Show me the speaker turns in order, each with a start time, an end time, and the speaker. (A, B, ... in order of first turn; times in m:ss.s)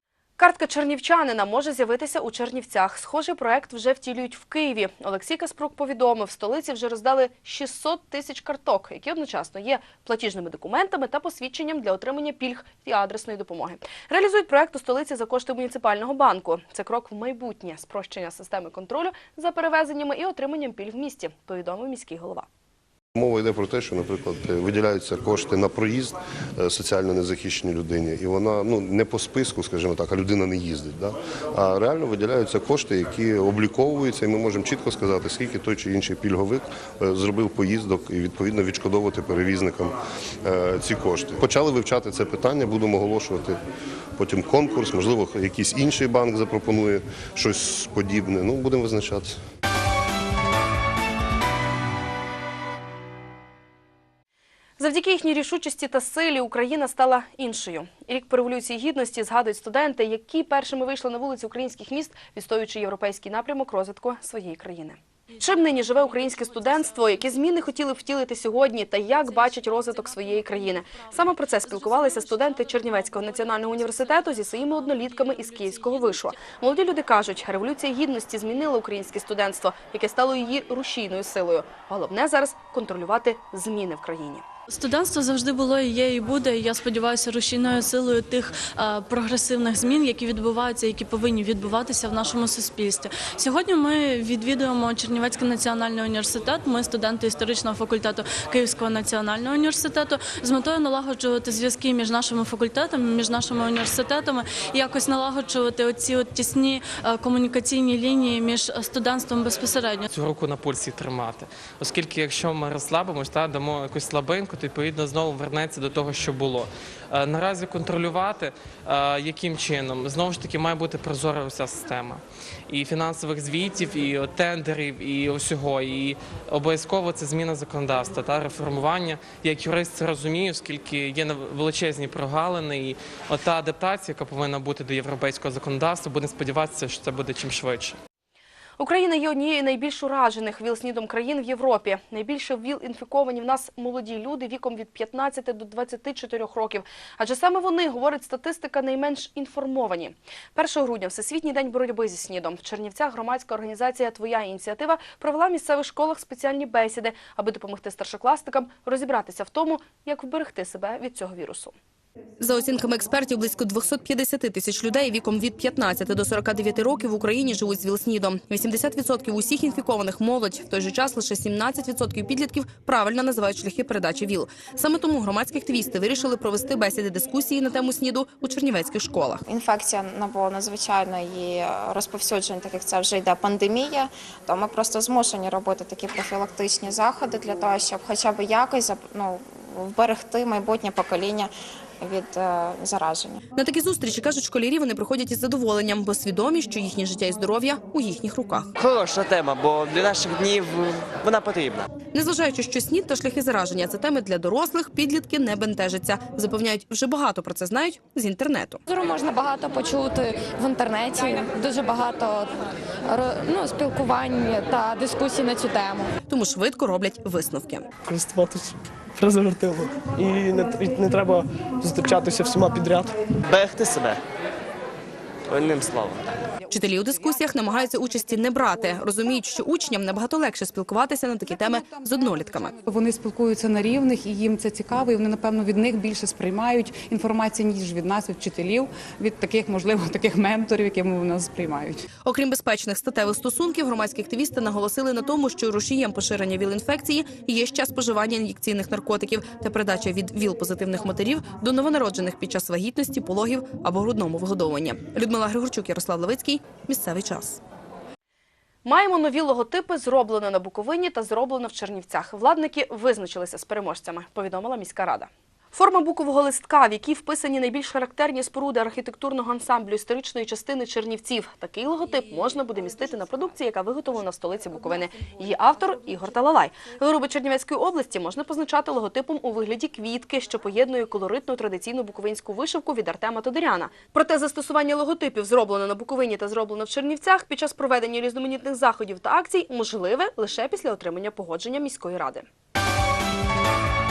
0:00.4-0:22.5 A
0:23.2-0:43.6 B
0:44.2-0:49.4 B
0:54.8-1:24.4 A
1:24.7-1:50.0 C
1:50.1-2:18.0 D
2:18.8-2:41.8 A
2:42.4-2:59.4 A
2:59.5-3:13.4 E
3:13.6-3:18.7 A
3:18.8-3:21.9 F
3:22.1-3:28.8 A
3:28.9-3:32.5 G
3:33.1-3:36.1 G
3:36.3-3:37.9 A
3:38.1-3:43.2 H
3:43.4-3:44.2 F
3:45.5-3:46.3 F
3:46.7-3:52.7 A
3:51.7-4:02.0 I
4:02.2-4:17.6 A
4:18.8-4:52.5 A